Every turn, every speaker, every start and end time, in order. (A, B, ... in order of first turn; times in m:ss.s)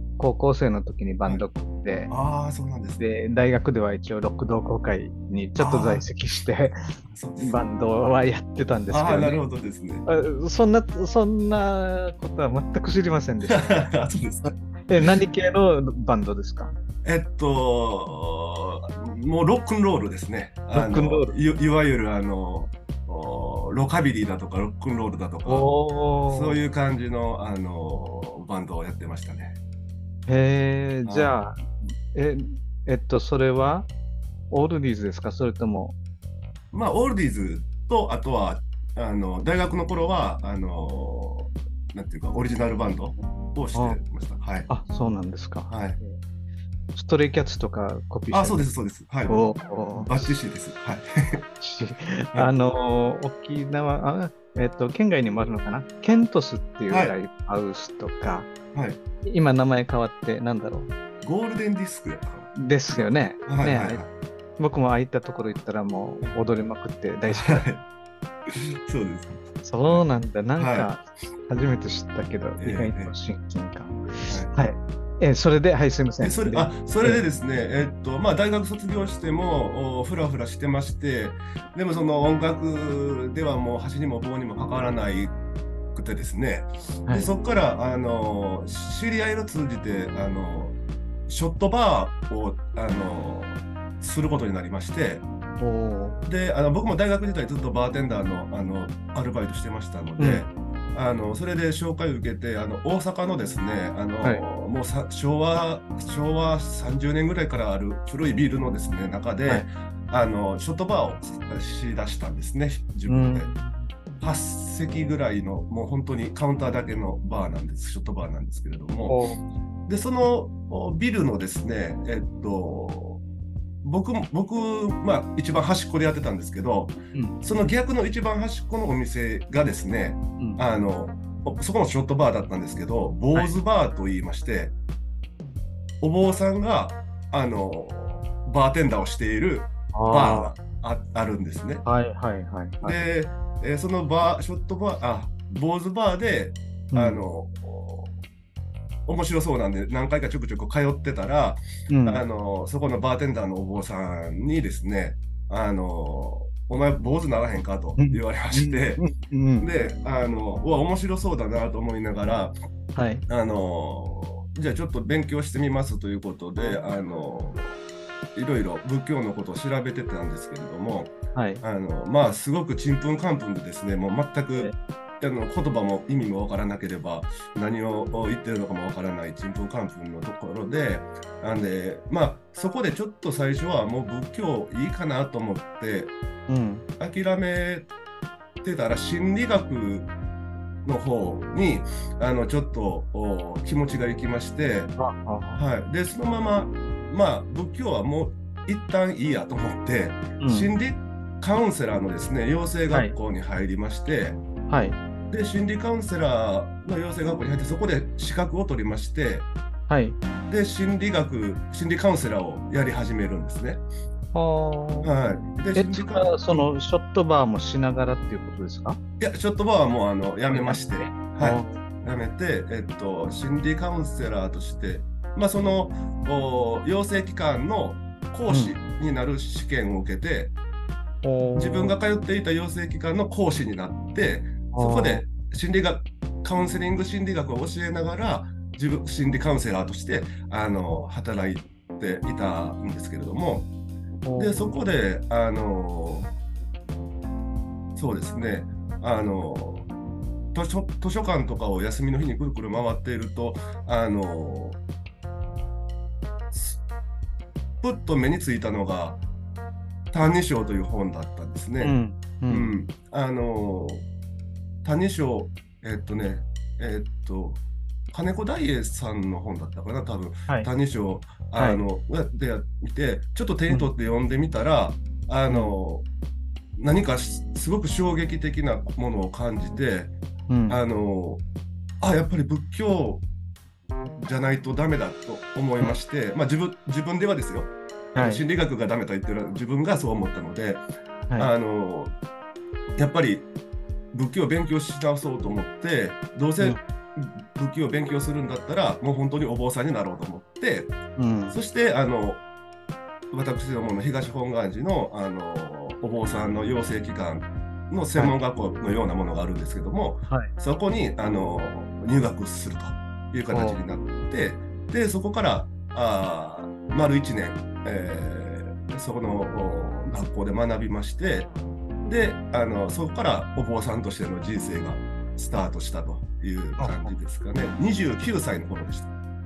0:00.2-0:02.1 A
0:02.1-0:03.0 B
0:03.0-0:06.8 A
0:05.6-0:06.1 B
0:07.1-0:07.6 B
0:07.4-0:09.4 A
0:08.9-0:10.0 B
0:10.1-0:13.9 A
0:13.4-0:15.2 B
0:14.4-0:16.7 A
0:17.0-0:25.7 B
0:20.7-0:21.3 A
0:25.5-0:26.6 A
0:26.3-0:29.6 B
0:30.3-0:33.9 A
0:31.0-0:31.4 B
0:34.5-0:36.0 A
0:36.7-0:44.7 B
0:43.7-0:44.0 A
0:44.7-0:46.2 A
0:45.7-0:46.0 B
0:46.9-0:48.7 A
0:48.3-0:51.4 B
0:49.3-0:50.4 A
0:51.6-0:58.5 A
0:56.9-0:57.2 B
0:58.7-0:59.0 B
0:59.2-1:00.9 A
1:01.2-1:04.1 B
1:02.6-1:04.0 A
1:04.6-1:07.7 A
1:07.3-1:07.8 B
1:08.9-1:10.0 B
1:09.6-1:17.2 A
1:10.6-1:10.9 B
1:12.6-1:13.1 B
1:16.2-1:25.4 B
1:25.9-1:30.8 B
1:31.3-1:35.2 B
1:35.6-1:36.3 A
1:36.3-1:53.5 B
1:40.2-1:40.5 A
1:53.1-1:53.8 A
1:54.2-1:59.2 B
1:59.1-1:59.4 A
1:59.9-2:03.2 B
2:03.8-2:14.8 B
2:16.0-2:21.8 B
2:19.9-2:20.5 A
2:21.8-2:23.1 A
2:22.8-2:28.1 B
2:26.9-2:27.3 A
2:29.1-2:39.0 B
2:31.9-2:32.2 A
2:38.0-2:39.7 A
2:39.6-2:42.5 B
2:43.0-2:43.2 A
2:43.3-2:47.7 B
2:48.4-3:06.1 B
2:51.3-2:51.6 A
3:06.5-3:06.9 A
3:07.0-3:07.9 B
3:08.6-3:10.1 B
3:10.8-3:15.0 B
3:15.0-3:15.6 A
3:15.5-3:24.4 B
3:20.4-3:20.7 A
3:22.9-3:23.2 A
3:24.7-3:25.0 A
3:25.3-3:29.5 B
3:29.9-3:30.2 A
3:30.5-3:33.8 B
3:34.3-3:35.2 A
3:35.0-3:36.7 B
3:35.7-3:39.0 A
3:39.2-3:50.5 B
3:40.5-3:41.8 A
3:48.5-3:48.8 A
3:51.2-3:52.0 A
3:51.6-4:03.7 B
3:54.7-3:55.3 A
4:04.2-4:04.8 A
4:04.4-4:06.3 B
4:08.0-4:09.9 B
4:10.5-4:14.8 B
4:16.5-4:16.8 B
4:17.8-4:19.2 B
4:20.1-4:22.0 B
4:21.8-4:22.8 A
4:22.5-4:24.1 B
4:24.8-4:36.1 B
4:31.6-4:31.8 A
4:35.5-4:35.8 A
4:36.8-4:40.2 B
4:40.5-4:40.8 A
4:40.7-4:41.4 B
4:42.0-4:43.2 B
4:44.2-4:50.8 B
4:48.2-4:48.4 A
4:51.4-4:52.1 B
4:53.0-4:53.5 B
4:54.1-5:00.9 B
5:01.2-5:01.6 A
5:01.5-5:02.4 B
5:03.3-5:21.5 B
5:13.5-5:13.8 A
5:22.0-5:29.1 B
5:26.8-5:27.2 A